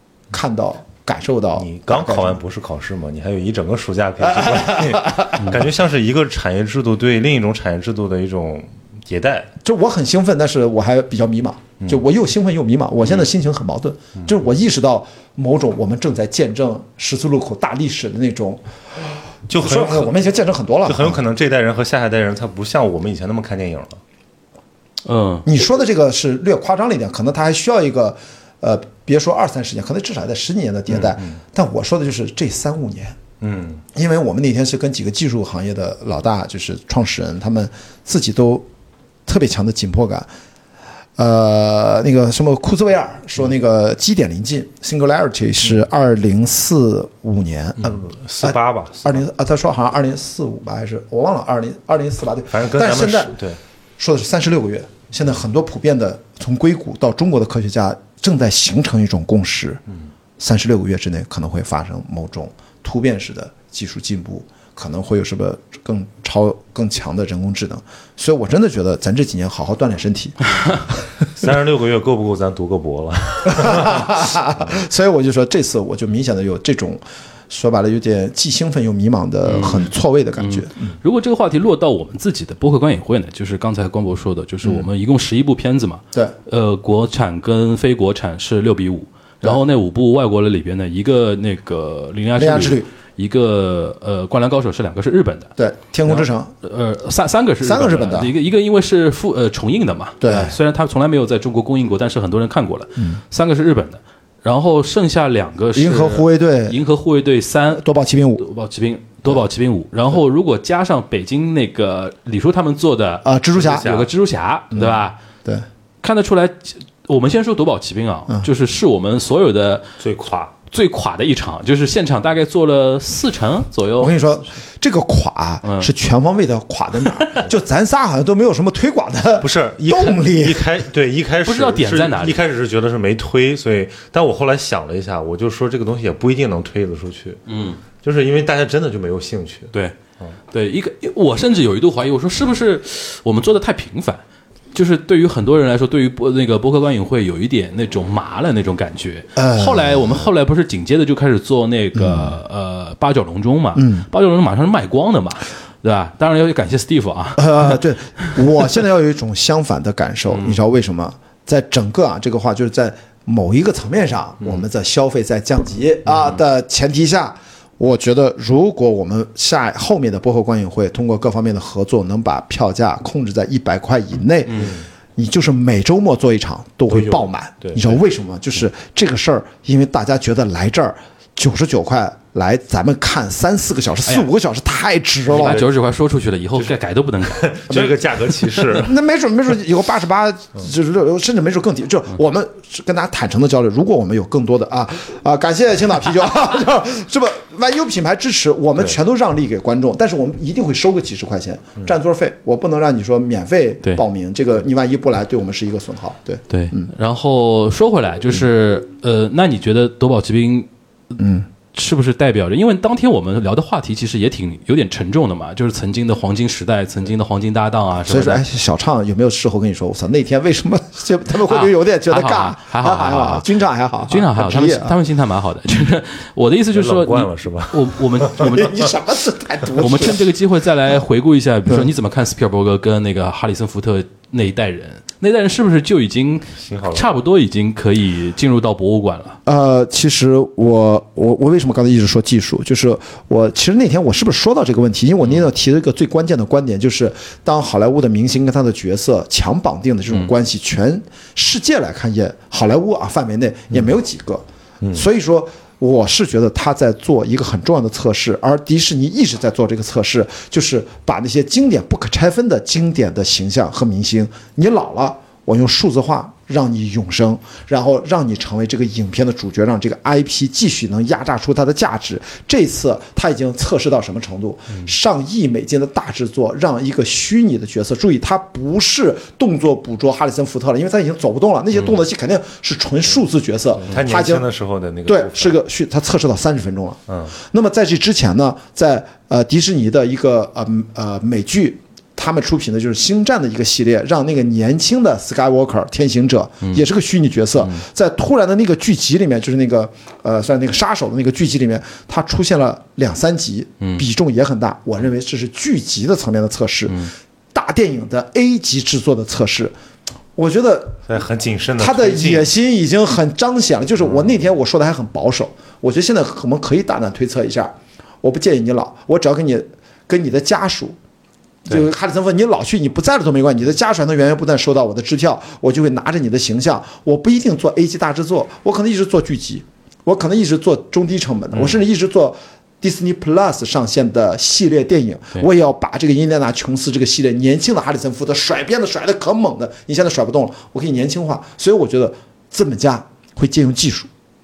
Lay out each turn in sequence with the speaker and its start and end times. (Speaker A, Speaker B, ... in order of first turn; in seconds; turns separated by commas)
Speaker A: 0.3-2.4, Speaker B: 1.6-9.5, Speaker A: 4.2-5.6, Speaker A: 9.6-21.2, Speaker B: 19.5-20.1, Speaker B: 20.9-24.0, Speaker C: 25.1-25.5, Speaker A: 25.4-33.2, Speaker B: 31.0-31.3, Speaker B: 33.4-33.8, Speaker A: 33.9-38.7, Speaker A: 39.3-40.3, Speaker A: 41.2-53.4, Speaker B: 47.8-49.2, Speaker B: 52.5-53.6, Speaker A: 54.0-59.8, Speaker A: 60.4-70.9, Speaker B: 71.3-74.1, Speaker A: 73.5-81.0, Speaker C: 79.5-79.9, Speaker C: 80.4-95.5, Speaker A: 92.4-92.9, Speaker A: 95.6-96.5, Speaker C: 96.1-107.9, Speaker A: 97.6-98.3, Speaker A: 100.2-100.6, Speaker A: 105.7-106.8, Speaker A: 107.8-108.5, Speaker C: 108.4-115.2, Speaker A: 113.2-113.9, Speaker B: 113.6-114.1, Speaker A: 114.7-115.7, Speaker C: 116.0-119.9, Speaker B: 120.0-120.5, Speaker C: 120.7-124.2, Speaker A: 124.0-130.7, Speaker B: 129.4-137.4, Speaker C: 131.4-132.4, Speaker C: 137.5-137.8, Speaker B: 138.0-139.7, Speaker C: 140.5-144.2, Speaker C: 144.7-157.7, Speaker A: 149.4-150.2, Speaker A: 151.9-152.3, Speaker A: 153.8-154.1, Speaker A: 157.4-185.6, Speaker B: 176.9-178.0, Speaker C: 185.3-187.7, Speaker B: 185.3-185.6, Speaker B: 187.3-189.0, Speaker A: 187.7-206.9, Speaker C: 206.5-210.7, Speaker A: 211.2-211.5, Speaker C: 211.7-218.4, Speaker A: 218.1-225.0, Speaker C: 221.5-223.5, Speaker C: 224.1-228.8, Speaker B: 226.7-228.5, Speaker A: 228.4-230.3, Speaker C: 229.8-239.4, Speaker B: 236.6-237.1, Speaker A: 239.5-284.5, Speaker B: 283.9-285.6, Speaker A: 285.1-309.7, Speaker B: 287.1-287.3, Speaker A: 310.4-311.0, Speaker B: 311.1-312.5, Speaker A: 311.8-321.0, Speaker A: 321.7-344.1